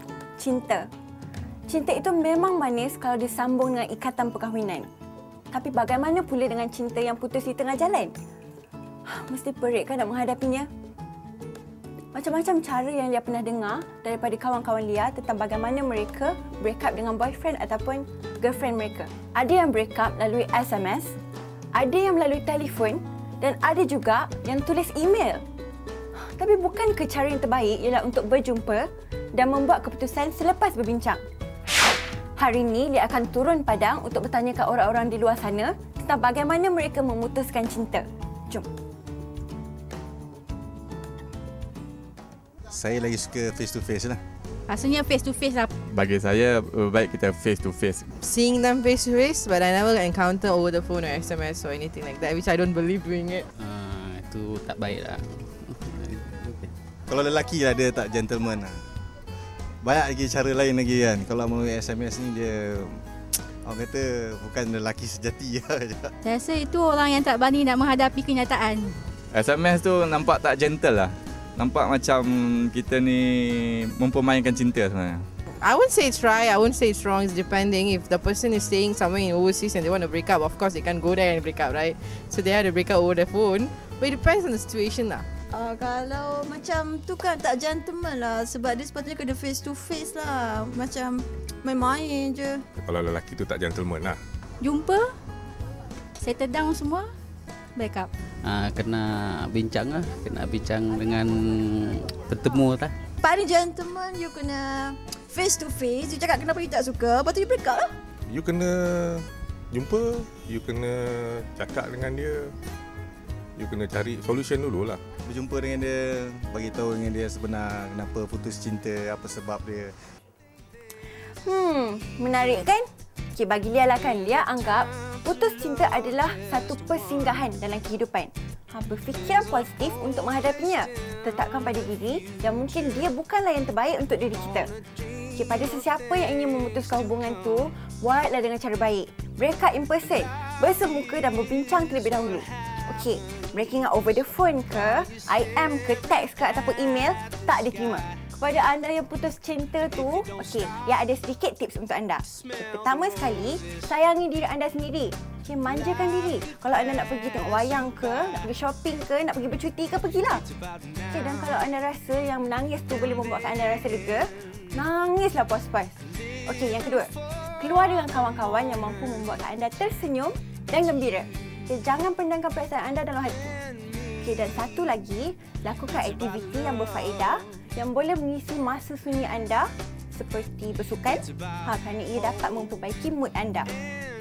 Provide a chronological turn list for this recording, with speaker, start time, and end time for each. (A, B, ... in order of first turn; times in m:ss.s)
0:00.4-0:00.9 A
0:01.7-0:04.9 A
0:05.5-0:08.1 A
0:09.1-0:10.7 A
0:12.1-0:21.2 A
0:21.7-0:25.4 A
0:26.2-0:31.2 A
0:32.4-0:38.7 A
0:42.7-0:44.2 B
0:44.7-0:45.7 C
0:45.9-0:48.0 D
0:48.2-0:53.4 E
0:53.6-0:56.7 F
0:57.1-0:58.8 B
0:59.8-1:03.0 B
1:03.6-1:06.1 B
1:06.2-1:09.0 C
1:09.3-1:15.2 D
1:15.6-1:25.2 E
1:25.5-1:32.6 G
1:32.8-1:34.2 H
1:34.6-1:35.1 C
1:36.2-1:37.1 C
1:37.8-1:38.1 C
1:38.4-1:42.9 F
1:43.2-1:48.0 G
1:48.3-1:52.5 H
1:53.6-1:55.0 H
1:55.2-2:00.0 B
2:01.4-2:14.7 A
2:15.3-2:40.4 A
2:41.1-2:53.5 A
2:54.2-3:03.7 A